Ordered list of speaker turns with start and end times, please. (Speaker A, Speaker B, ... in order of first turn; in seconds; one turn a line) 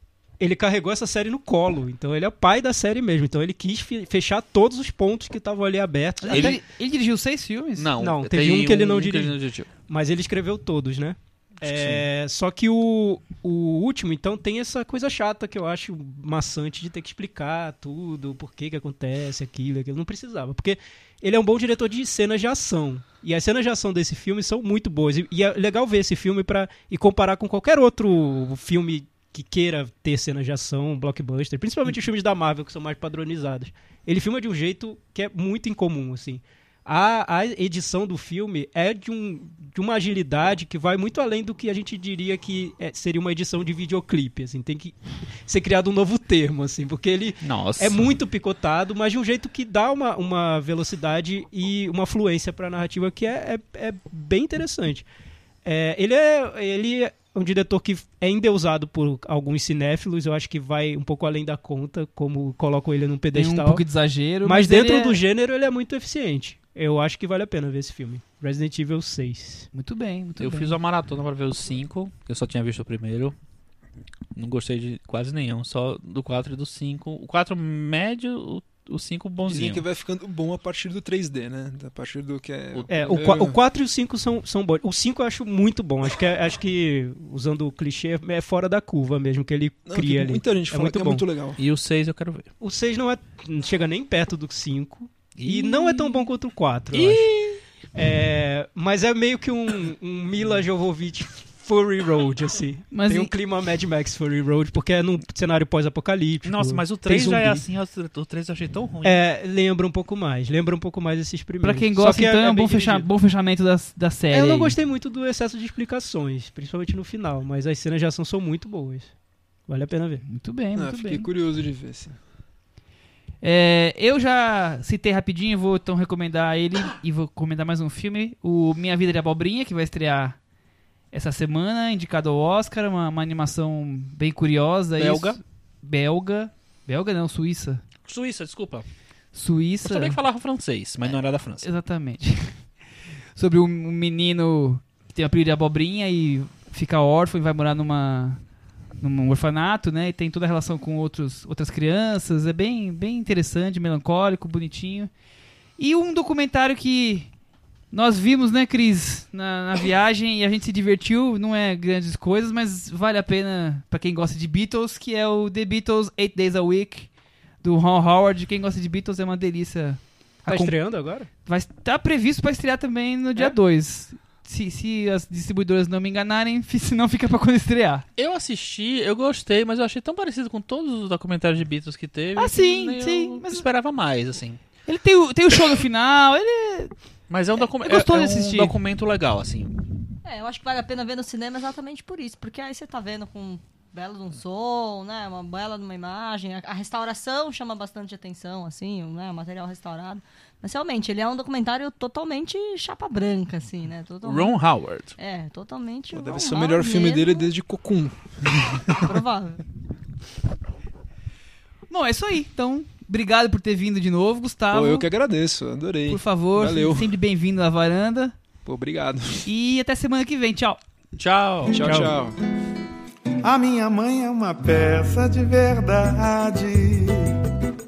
Speaker A: 0.4-6.6
Speaker B: 6.2-7.9
Speaker C: 6.3-6.6
Speaker C: 7.8-9.7
Speaker A: 8.0-9.4
Speaker A: 9.9-55.1
Speaker C: 11.6-12.1
Speaker C: 47.4-48.0
Speaker A: 55.6-63.8
Speaker B: 63.3-65.2
Speaker A: 64.4-69.7
Speaker B: 69.7-70.8
Speaker C: 70.4-73.3
Speaker C: 74.4-79.8
Speaker D: 79.5-83.5
Speaker C: 82.7-83.4
Speaker A: 82.9-91.3
Speaker D: 89.9-91.6
Speaker C: 91.6-92.5
Speaker A: 92.6-97.3
Speaker C: 95.4-96.1
Speaker C: 96.9-97.6
Speaker A: 97.9-107.7
Speaker B: 102.9-103.3
Speaker C: 106.5-109.2
Speaker A: 109.0-113.1
Speaker B: 111.6-114.8
Speaker A: 114.3-119.1
Speaker A: 119.7-120.2
Speaker B: 120.3-121.3
Speaker D: 120.8-122.2
Speaker B: 123.4-130.4
Speaker B: 131.1-137.8
Speaker C: 135.0-135.4
Speaker C: 138.1-138.9
Speaker B: 139.3-140.2
Speaker C: 139.8-141.7
Speaker B: 141.6-142.6
Speaker B: 143.4-148.4
Speaker B: 149.0-155.1
Speaker B: 155.8-157.3
Speaker B: 157.9-167.1
Speaker B: 167.6-170.8
Speaker A: 170.5-171.3
Speaker B: 171.4-178.1
Speaker C: 178.2-184.6
Speaker B: 182.4-183.7
Speaker B: 184.9-186.9
Speaker C: 187.3-189.8
Speaker B: 187.6-188.8
Speaker E: 190.2-204.6
Speaker C: 204.2-205.2
Speaker E: 205.2-207.5
Speaker D: 206.1-209.2
Speaker E: 209.1-209.6
Speaker B: 211.9-215.1
Speaker D: 214.7-217.1
Speaker B: 216.1-218.4
Speaker D: 218.7-219.5
Speaker B: 219.5-220.8
Speaker C: 221.2-221.8
Speaker A: 221.7-222.2
Speaker D: 221.7-222.4
Speaker F: 223.4-227.4